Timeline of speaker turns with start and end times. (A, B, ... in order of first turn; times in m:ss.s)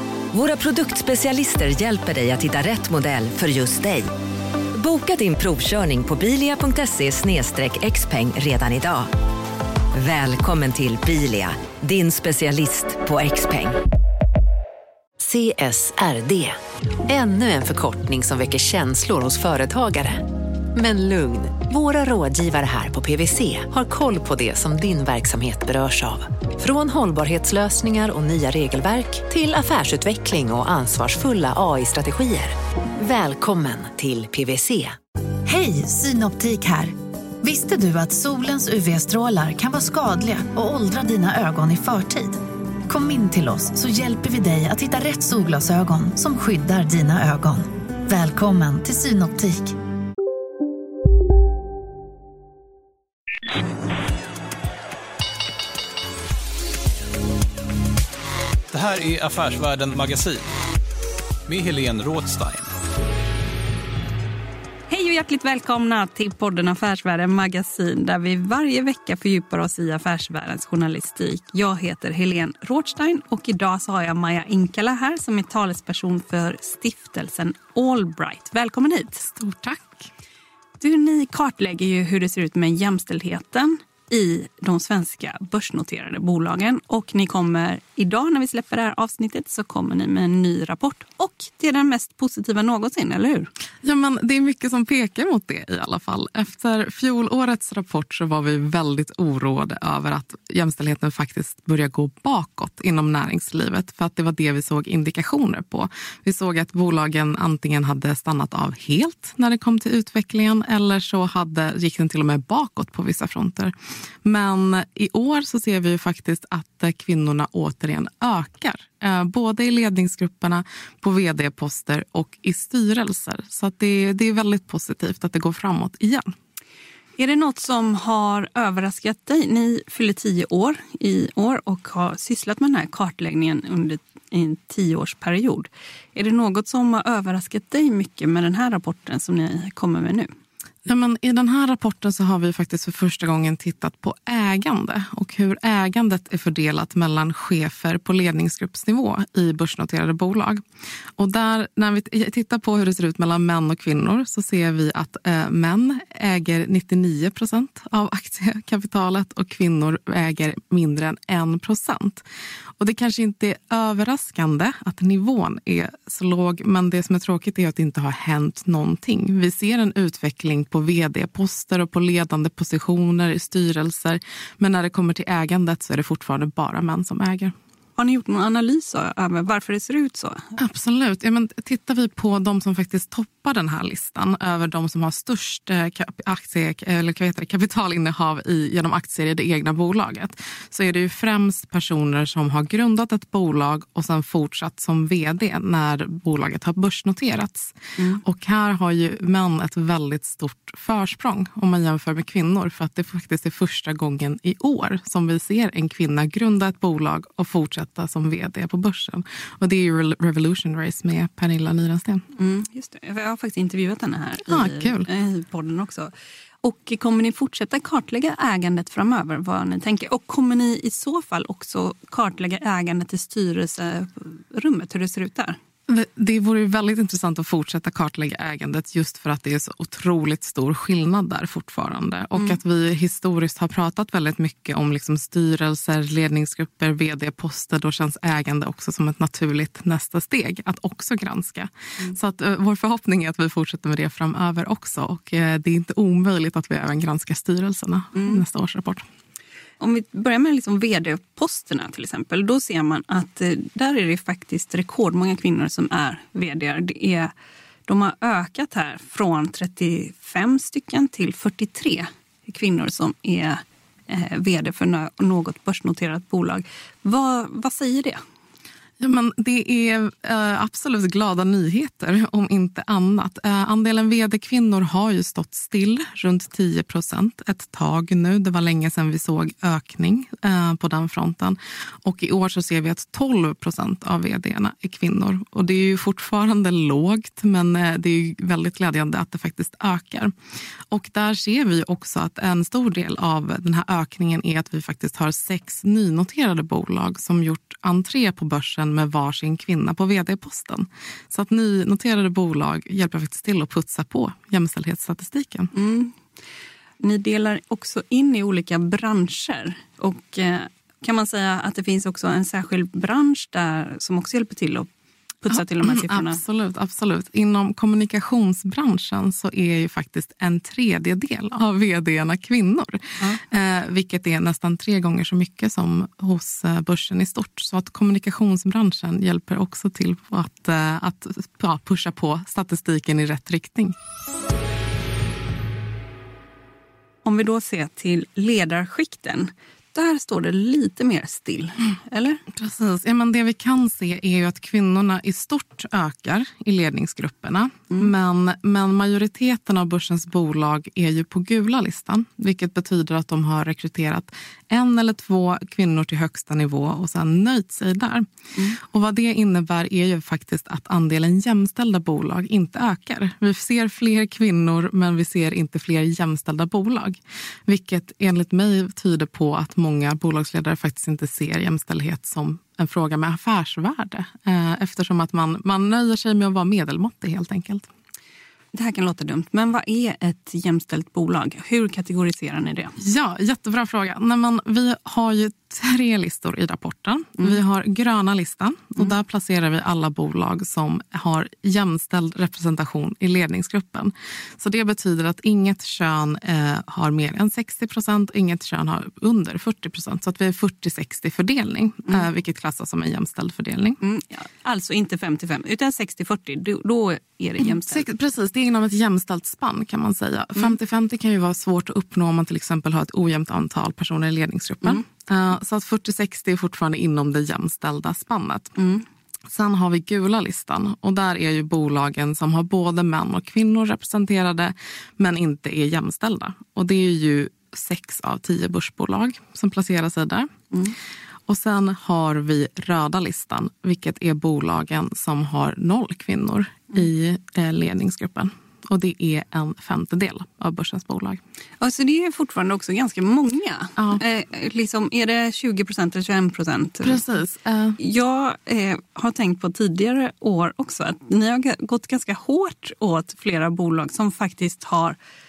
0:00.3-0:04.1 A
0:04.7-0:09.1 A
0:09.9-0:13.8 A
0:15.2-0:35.0 B
0:35.4-0:49.8 C
0:58.7-1:00.5 D
1:01.5-1:02.7 D
1:04.9-1:19.3 E
1:19.2-1:20.1 F
1:20.8-1:33.5 E
1:33.8-2:06.2 F
2:07.2-2:20.3 E
2:20.9-2:30.6 F
2:31.2-2:42.2 F
2:42.8-2:57.5 F
2:58.0-3:00.5 E
3:00.6-3:32.2 F
3:32.4-3:36.1 E
3:34.5-3:35.1 F
3:36.6-3:45.6 E
3:45.9-4:09.0 F
4:08.2-4:08.4 E
4:09.8-4:17.3 E
4:17.9-4:28.2 E
4:29.0-4:50.3 F
4:50.9-5:05.7 F
5:05.7-5:06.2 E
5:07.0-5:14.9 E
5:15.4-5:16.4 E
5:15.5-5:34.0 F
5:37.2-5:42.4 E
5:42.5-6:17.9 F
6:18.7-6:23.0 E
6:23.0-6:44.0 F
6:44.0-6:48.1 E
6:47.6-6:58.8 F
6:58.8-6:59.0 E
6:59.5-7:10.5 F
7:11.5-7:21.4 F
7:21.8-7:27.2 E
7:27.0-7:28.0 F
7:28.0-7:35.2 E